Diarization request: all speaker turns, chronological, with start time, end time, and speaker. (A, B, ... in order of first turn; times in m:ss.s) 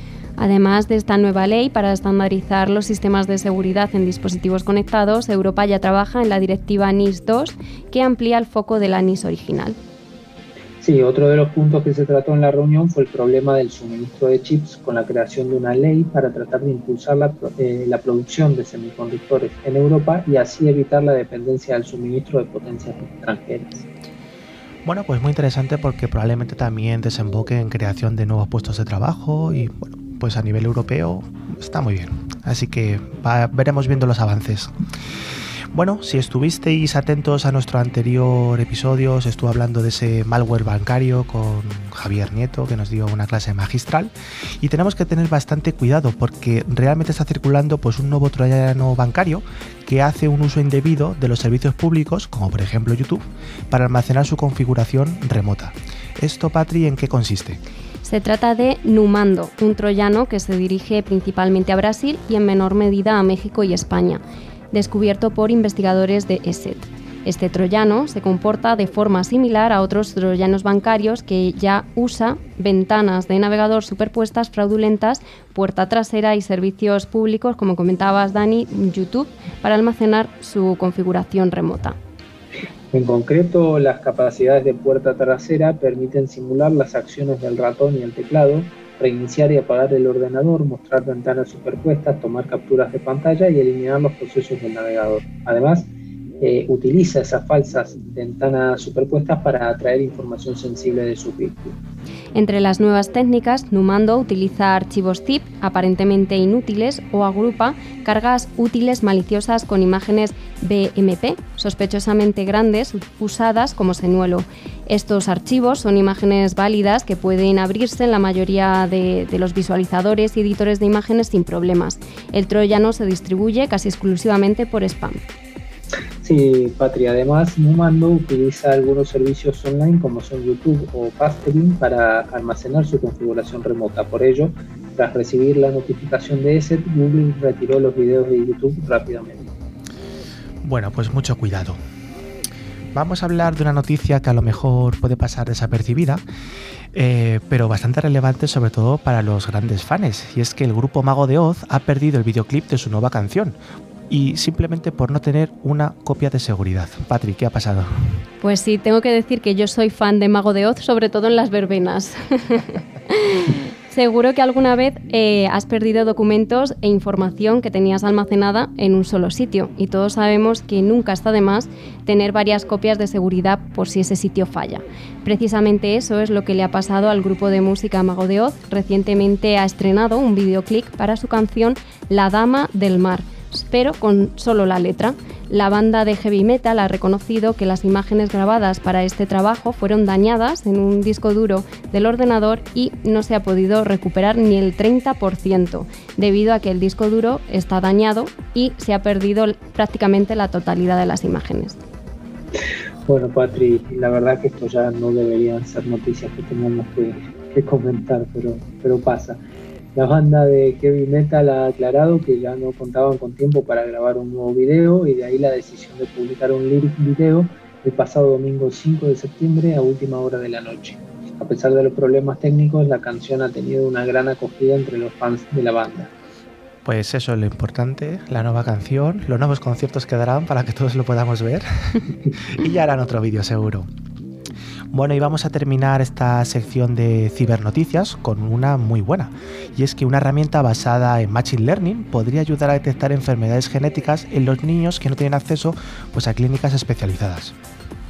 0:00.4-0:09.8 A
0:10.8-0:23.9 B
0:24.8-0:34.7 C
0:35.7-0:57.6 C
0:58.0-1:22.0 A
1:22.9-1:35.9 B
1:36.4-1:41.8 B
1:42.4-2:05.2 A
2:06.2-2:19.4 B
2:20.6-2:21.8 C
2:22.9-2:26.2 C
2:26.9-2:33.6 C
2:34.1-2:37.9 C
2:38.4-3:21.8 A
3:23.1-3:29.4 B
3:30.0-3:46.1 B
3:46.8-3:53.9 C
3:54.9-4:07.6 C